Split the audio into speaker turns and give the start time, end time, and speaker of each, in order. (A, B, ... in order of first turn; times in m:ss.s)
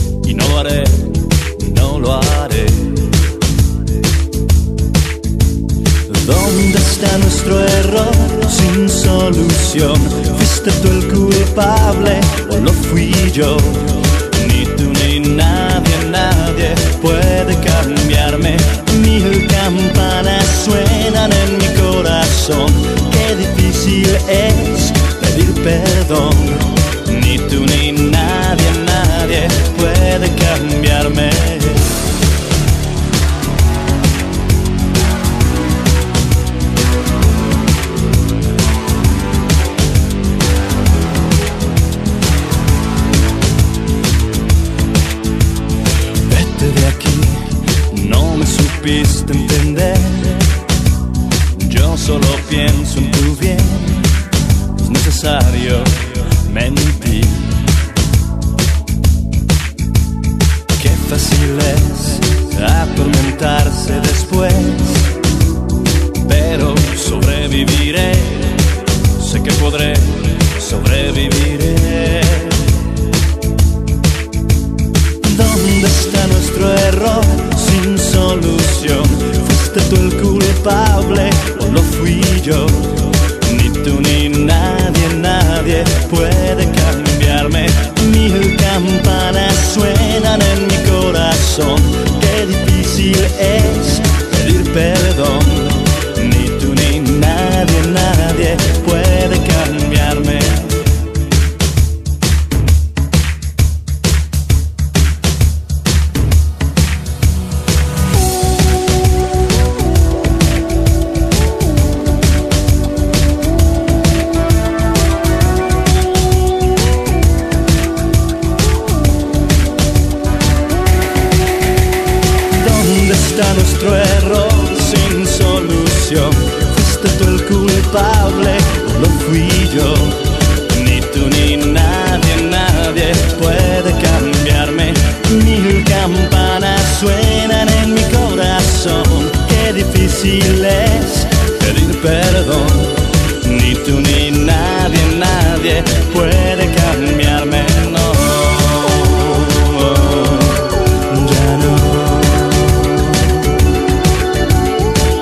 0:00.2-0:03.1 A
0:06.1-0:32.0 A
0:46.3-0:50.5 A
0:51.6-0:54.2 A
0:54.8-0:57.6 A
1:00.8-1:05.2 A
1:06.2-1:12.8 A
1:15.2-1:40.9 A
2:02.5-2:33.5 A